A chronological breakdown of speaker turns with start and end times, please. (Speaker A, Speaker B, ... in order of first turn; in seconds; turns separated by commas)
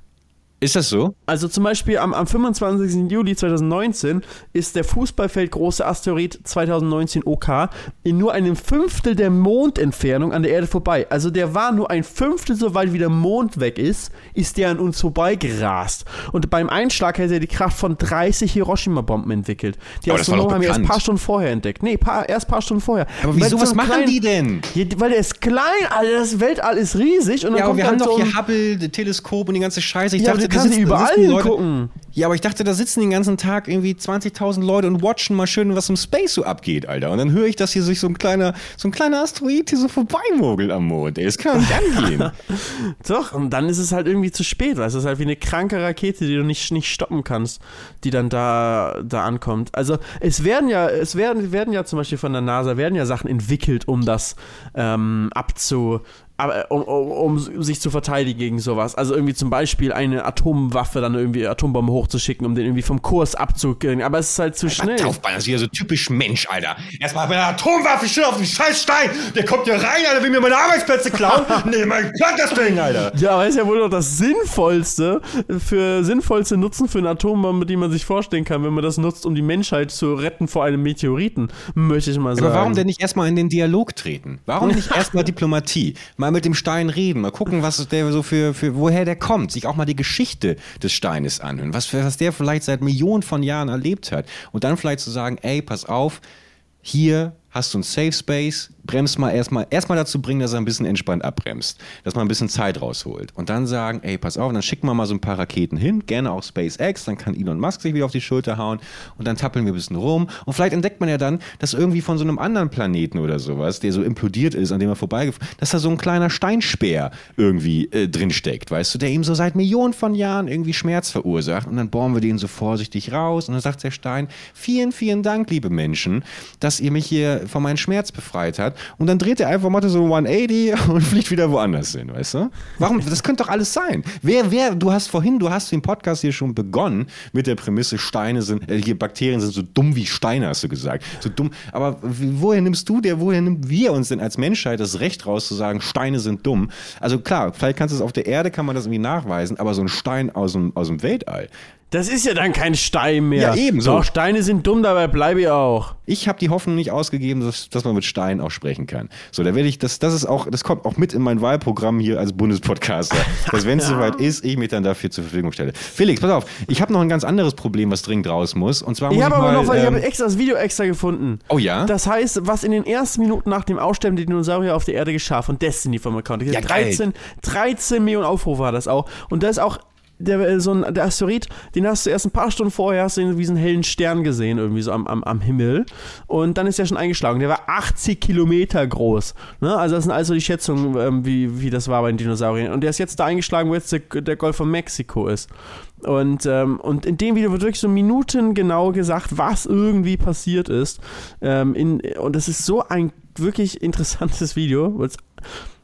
Speaker A: 0.6-1.1, Speaker B: 1.3-24.2, Speaker A: 20.1-21.0, Speaker A: 23.2-24.7, Speaker B: 24.7-28.3, Speaker A: 27.5-31.6, Speaker B: 30.2-31.9, Speaker A: 32.1-42.3, Speaker B: 41.6-65.1, Speaker A: 64.6-73.1, Speaker B: 73.1-82.8, Speaker A: 82.3-96.2, Speaker A: 96.8-151.5, Speaker B: 151.9-155.9, Speaker A: 153.3-154.1, Speaker A: 156.1-170.0, Speaker B: 163.2-164.2, Speaker B: 169.1-195.5, Speaker A: 171.5-171.9, Speaker A: 176.5-177.1, Speaker B: 196.0-205.2